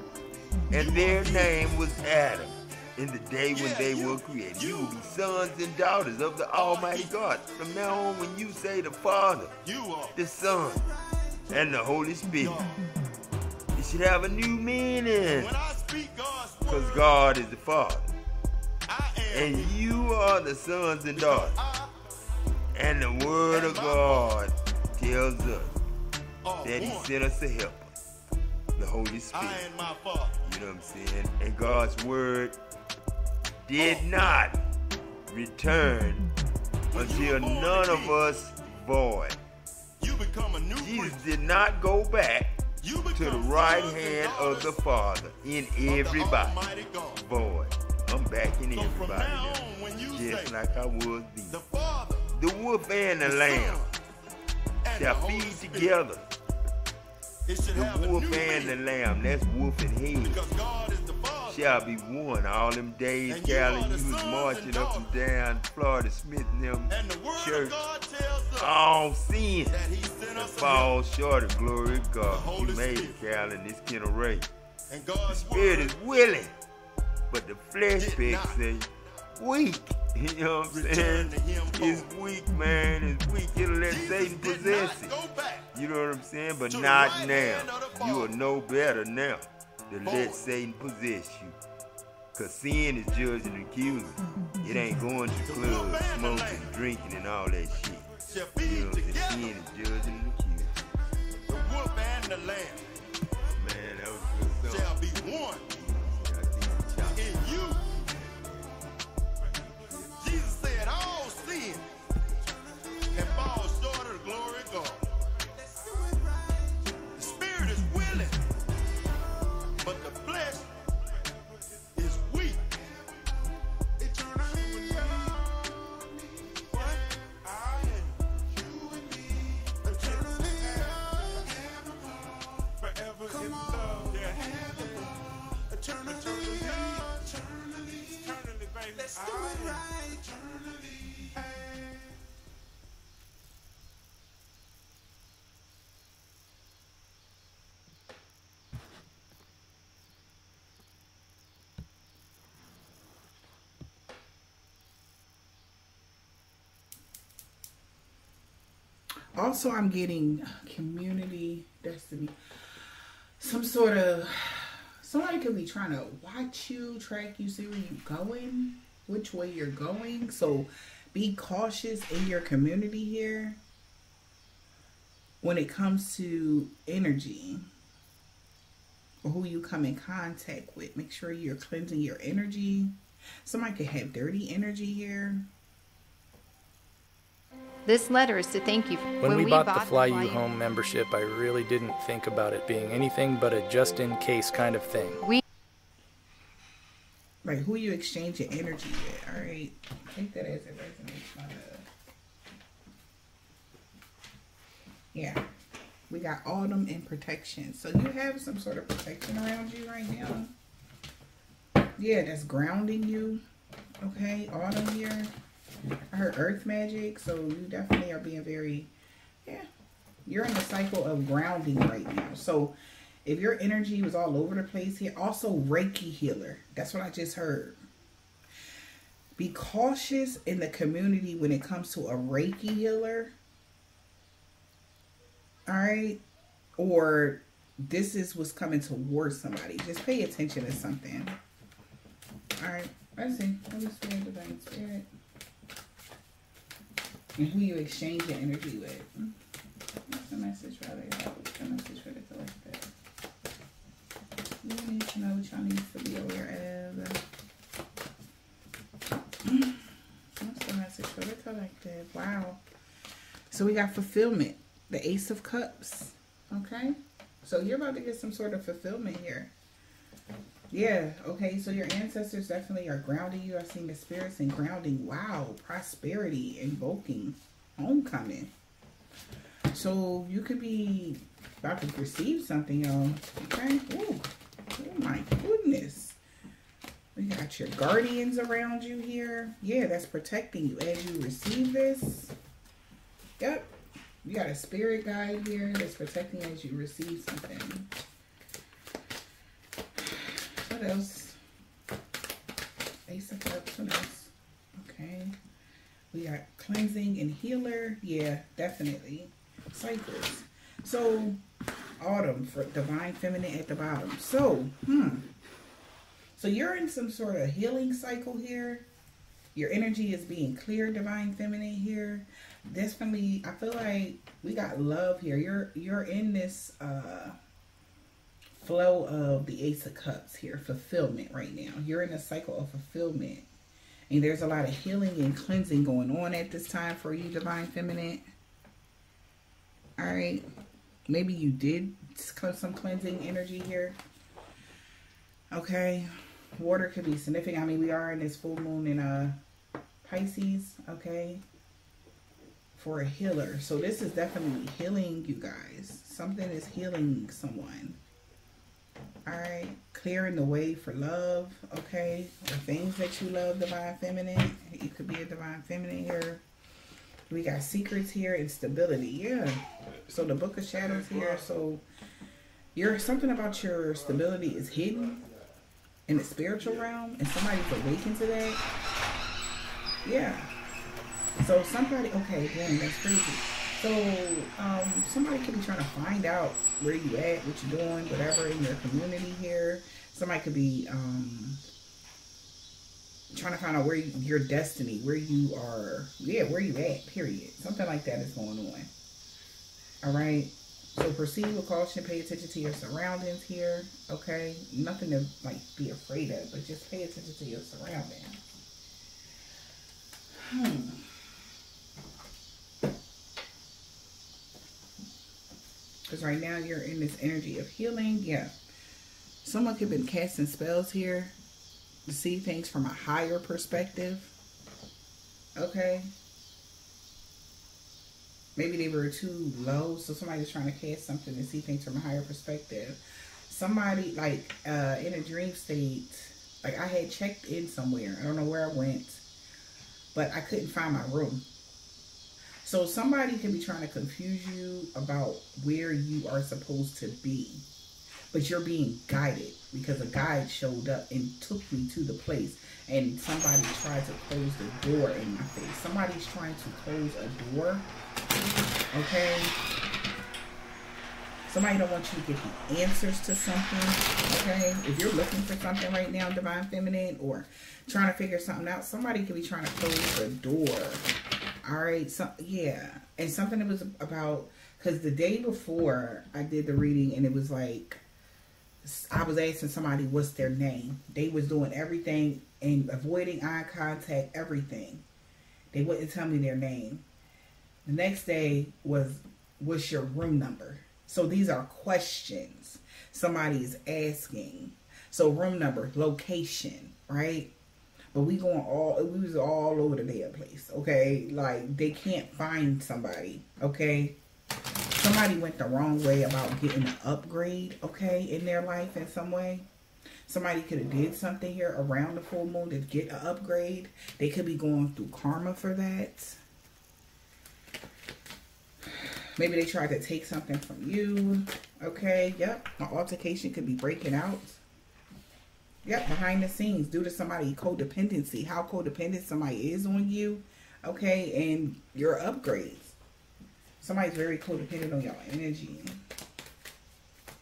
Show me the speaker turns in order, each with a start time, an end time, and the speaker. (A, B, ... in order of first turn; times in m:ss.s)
0:00.7-0:09.5 A
0:00.7-0:01.6 B
0:03.5-0:05.0 B
0:06.5-0:07.1 B
0:09.6-0:10.2 B
0:10.2-0:10.8 A
0:11.5-0:12.7 A
0:12.4-0:12.8 B
0:13.7-0:15.6 A
0:15.2-0:17.1 B
0:16.7-0:18.1 A
0:18.9-0:19.7 B
0:19.3-0:21.6 A
0:21.1-0:21.9 B
0:22.8-0:25.8 A
0:23.5-0:24.4 B
0:26.4-0:27.1 B
0:26.6-0:27.9 A
0:28.8-0:29.7 A
0:29.3-0:30.4 B
0:30.4-0:32.6 A
0:33.6-0:34.6 A
0:33.8-0:34.1 B
0:35.3-0:36.3 A
0:36.9-0:38.2 B
0:36.9-0:39.4 A
0:40.0-0:41.3 B
0:40.8-0:42.6 A
0:42.8-0:44.8 B
0:43.2-0:46.6 A
0:45.8-0:47.2 B
0:47.2-0:51.6 A
0:48.7-0:50.6 B
0:51.5-0:52.3 B
0:52.4-0:53.8 A
0:53.2-0:54.0 B
0:54.8-0:56.0 B
0:54.9-0:56.2 A
0:57.5-0:58.8 B
0:57.7-1:00.4 A
1:00.2-1:01.7 B
1:01.5-1:07.8 A
1:03.3-1:05.2 B
1:06.9-1:08.7 B
1:08.6-1:09.8 A
1:09.7-1:10.9 B
1:10.4-1:14.5 A
1:12.3-1:13.2 B
1:14.9-1:15.9 B
1:15.3-1:16.6 A
1:17.3-1:25.2 A
1:18.0-1:18.6 B
1:20.7-1:22.1 B
1:23.9-1:25.7 B
1:25.7-1:31.6 A
1:26.7-1:28.3 B
1:30.0-1:30.4 B
1:32.3-1:40.7 A
1:35.4-1:36.8 B
1:38.2-1:39.5 B
1:41.5-1:42.9 B
1:43.6-1:45.0 A
1:44.6-1:45.7 B
1:45.7-1:48.7 A
1:47.2-1:47.9 B
1:50.0-1:51.9 B
1:53.1-1:55.1 B
1:57.1-1:58.5 B
1:59.8-2:00.7 B
2:02.0-2:02.7 B
2:04.1-2:05.4 B
2:06.7-2:07.0 B
2:09.8-2:11.4 B
2:13.3-2:14.9 B
2:15.9-2:17.1 B
2:19.0-2:19.9 B
2:39.4-2:42.4 C
2:43.4-2:53.6 C
2:55.4-2:57.7 C
2:59.2-3:05.5 C
3:07.9-3:10.4 D
3:09.2-3:15.2 E
3:17.4-3:21.9 C
3:25.1-3:25.4 C
3:26.1-3:30.5 C
3:32.0-3:33.4 C
3:34.0-3:35.3 C
3:36.1-3:38.9 C
3:40.3-3:47.8 C
3:49.4-3:53.3 C
3:55.7-3:56.2 C
3:56.8-4:01.4 C
4:02.6-4:05.1 C
4:07.4-4:09.4 C
4:10.1-4:12.9 C
4:14.6-4:17.2 C
4:19.4-4:19.8 C
4:20.4-4:22.6 C
4:23.5-4:29.5 C
4:30.7-4:38.5 C
4:39.7-4:46.2 C
4:47.2-4:52.3 C
4:53.4-4:53.7 C
4:54.2-4:57.9 C
5:00.1-5:01.4 C
5:03.1-5:05.4 C
5:06.1-5:11.4 C
5:12.0-5:15.3 C
5:16.4-5:18.9 C
5:19.6-5:27.4 C
5:28.6-5:33.5 C
5:34.1-5:38.2 C
5:40.0-5:40.4 C
5:41.1-5:44.0 C
5:45.5-5:49.4 C
5:50.0-5:51.4 C
5:52.8-5:58.0 C
5:59.3-6:06.4 C
6:07.3-6:11.8 C
6:10.7-6:11.6 A
6:12.8-6:15.2 C
6:12.8-6:15.6 A
6:16.1-6:18.6 C
6:16.6-6:16.9 A
6:20.0-6:20.5 C
6:21.4-6:31.6 C
6:33.3-6:38.9 C
6:40.0-6:48.4 C
6:50.4-6:51.1 C
6:56.1-6:58.5 C
6:59.4-7:01.3 C
7:02.1-7:04.3 C
7:05.6-7:06.1 C
7:08.6-7:19.2 C
7:20.1-7:21.5 C
7:22.6-7:27.6 C
7:28.3-7:37.9 C
7:38.9-7:39.6 C
7:41.5-7:51.1 C
7:51.6-7:58.0 C
7:58.8-8:05.0 C
8:05.7-8:07.0 C
8:07.8-8:17.5 C
8:18.1-8:24.2 C
8:25.0-8:29.7 C
8:30.3-8:36.4 C
8:39.0-8:44.6 C
8:45.8-8:53.0 C
8:53.8-8:56.0 C